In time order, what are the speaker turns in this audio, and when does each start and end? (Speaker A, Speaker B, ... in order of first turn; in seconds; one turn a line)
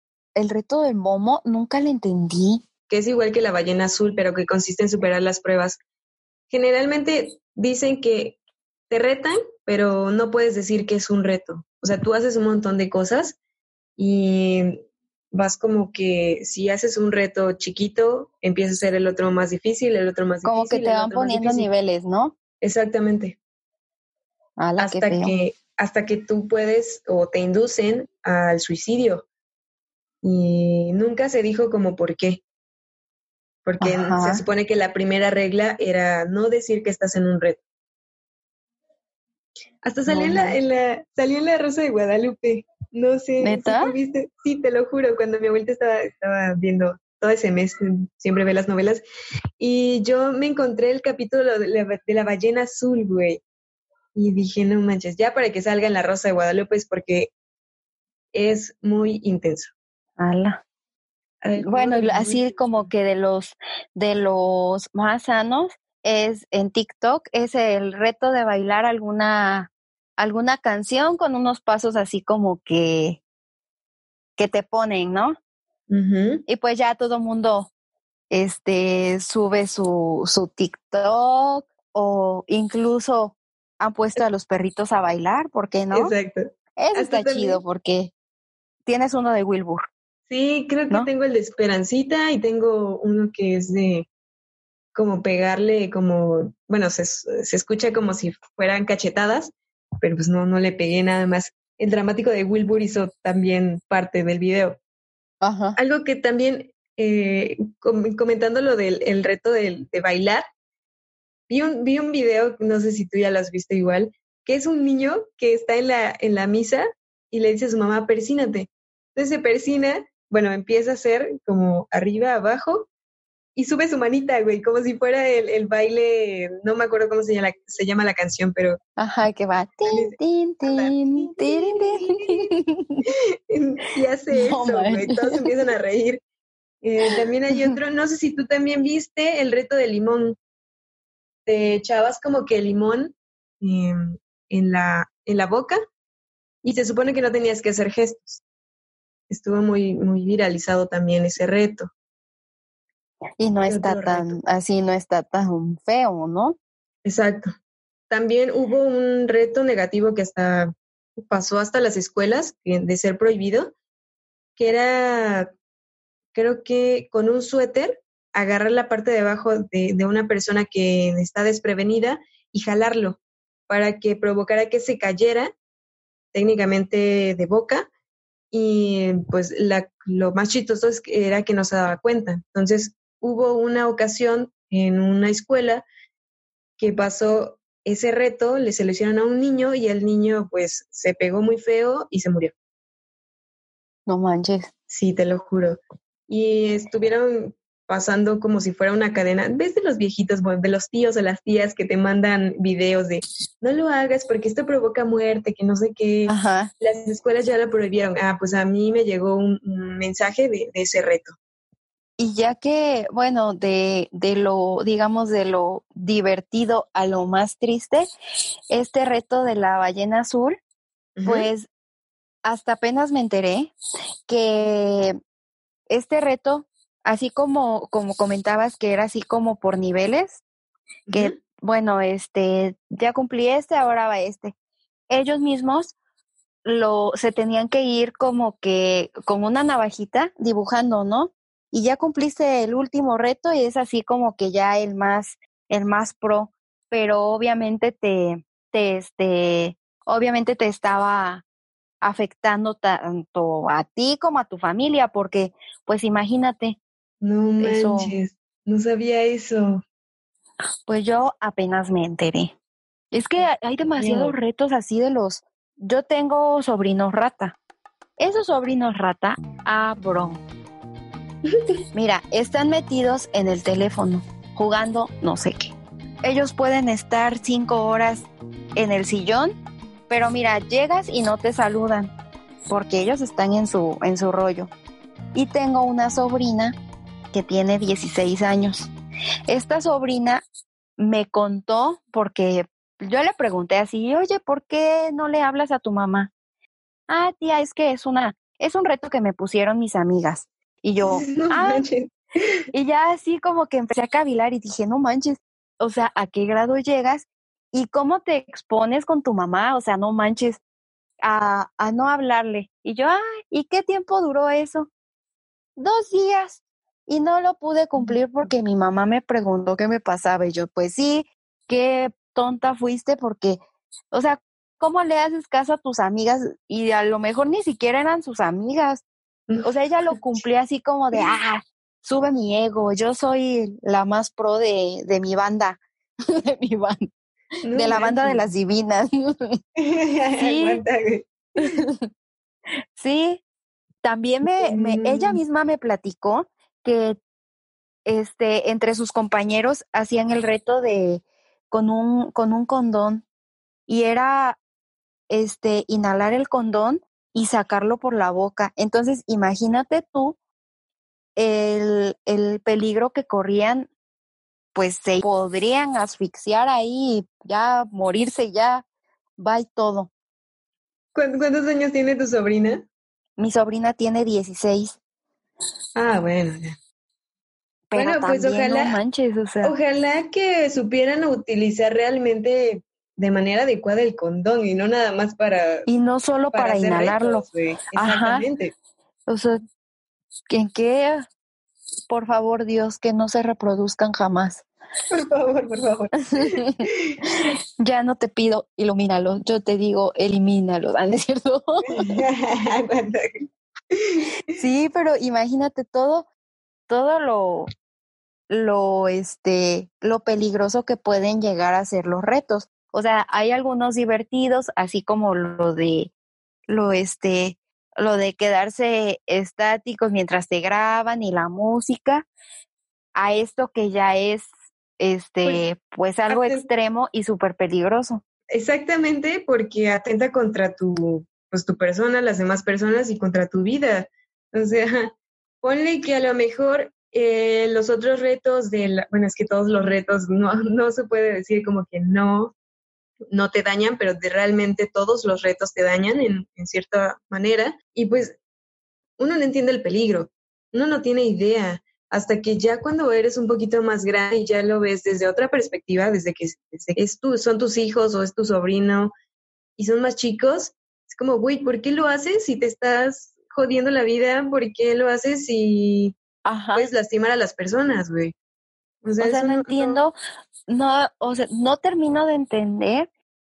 Speaker A: 0.3-2.6
Speaker B: 2.9-5.8
Speaker B: 6.5-8.4
Speaker B: 8.9-13.4
Speaker B: 14.0-21.7
Speaker A: 20.4-22.4
Speaker B: 22.6-23.4
Speaker A: 24.6-25.3
Speaker B: 24.8-29.2
Speaker B: 30.2-32.4
Speaker B: 33.6-37.6
Speaker A: 33.8-34.4
Speaker B: 39.8-49.0
Speaker A: 40.1-40.6
Speaker A: 43.4-43.9
Speaker B: 49.6-53.4
Speaker B: 54.1-57.3
Speaker B: 58.3-59.7
Speaker A: 60.2-60.6
Speaker B: 61.4-62.9
Speaker A: 61.6-73.2
Speaker A: 74.4-75.3
Speaker B: 75.9-76.4
Speaker A: 76.5-77.7
Speaker A: 78.3-86.1
Speaker B: 85.9-87.6
Speaker A: 86.8-88.1
Speaker A: 88.8-89.9
Speaker B: 90.3-94.1
Speaker B: 94.9-104.8
Speaker A: 105.4-105.8
Speaker B: 105.8-110.4
Speaker B: 111.5-122.9
Speaker B: 123.5-128.8
Speaker A: 129.0-133.0
Speaker B: 129.9-132.5
Speaker B: 133.5-136.2
Speaker A: 134.3-135.5
Speaker B: 136.8-140.4
Speaker A: 137.0-137.8
Speaker B: 141.5-145.8
Speaker B: 146.6-148.4
Speaker B: 149.3-151.9
Speaker A: 153.4-156.6
Speaker B: 153.7-154.4
Speaker B: 157.0-157.5
Speaker B: 158.1-160.7
Speaker B: 161.2-163.7
Speaker B: 164.6-165.5
Speaker B: 166.3-175.5
Speaker B: 176.3-177.9
Speaker B: 178.5-185.8
Speaker B: 186.8-192.5
Speaker A: 194.1-194.7
Speaker B: 194.9-211.3
Speaker A: 206.3-206.7
Speaker A: 212.2-218.0
Speaker A: 218.7-220.6
Speaker B: 221.2-221.5
Speaker A: 221.2-221.7
Speaker A: 222.4-223.7
Speaker A: 224.3-225.2
Speaker A: 225.9-230.4
Speaker B: 231.1-231.3
Speaker A: 231.1-234.5
Speaker A: 235.1-235.9
Speaker A: 236.6-251.4
Speaker A: 252.0-256.8
Speaker B: 257.2-259.8
Speaker A: 257.6-258.1
Speaker A: 260.9-262.5
Speaker A: 263.1-267.6
Speaker B: 264.0-264.4
Speaker A: 268.2-270.4
Speaker A: 271.9-282.1
Speaker A: 282.7-284.7
Speaker A: 285.3-286.8
Speaker A: 287.3-288.9
Speaker A: 289.5-290.4
Speaker A: 291.0-296.3
Speaker A: 297.1-301.9
Speaker B: 301.0-302.1
Speaker A: 302.7-310.6
Speaker A: 311.2-314.9
Speaker A: 315.8-323.6
Speaker A: 324.1-329.0
Speaker B: 329.5-330.4
Speaker A: 329.6-335.8
Speaker A: 336.3-337.1
Speaker B: 337.6-338.5
Speaker A: 337.7-339.6
Speaker B: 339.8-341.3
Speaker A: 340.4-340.8
Speaker A: 341.6-342.0
Speaker A: 342.9-343.4
Speaker A: 344.0-347.2
Speaker B: 344.6-345.4
Speaker A: 348.1-353.2
Speaker A: 353.9-354.6
Speaker A: 355.3-360.4
Speaker A: 361.4-363.9
Speaker A: 364.7-368.8
Speaker A: 369.4-370.1
Speaker B: 371.1-372.9
Speaker A: 373.4-375.0
Speaker B: 375.9-376.8
Speaker A: 377.9-379.8
Speaker B: 377.9-379.0
Speaker B: 379.6-385.9
Speaker A: 385.9-388.5
Speaker B: 386.5-388.7
Speaker A: 389.3-389.6
Speaker A: 390.5-391.2
Speaker A: 392.1-394.6
Speaker B: 395.1-396.5
Speaker A: 396.4-396.8
Speaker A: 397.8-402.1
Speaker B: 401.9-404.3
Speaker A: 404.6-406.3
Speaker A: 406.9-407.7
Speaker A: 408.5-416.1
Speaker A: 416.7-422.3
Speaker A: 423.1-428.2
Speaker B: 426.3-426.6
Speaker B: 428.5-442.5
Speaker B: 443.3-448.4
Speaker B: 449.2-459.1
Speaker B: 459.8-466.1
Speaker A: 466.4-466.9
Speaker B: 466.7-468.3
Speaker B: 469.0-470.0
Speaker A: 469.2-470.1
Speaker A: 470.7-473.1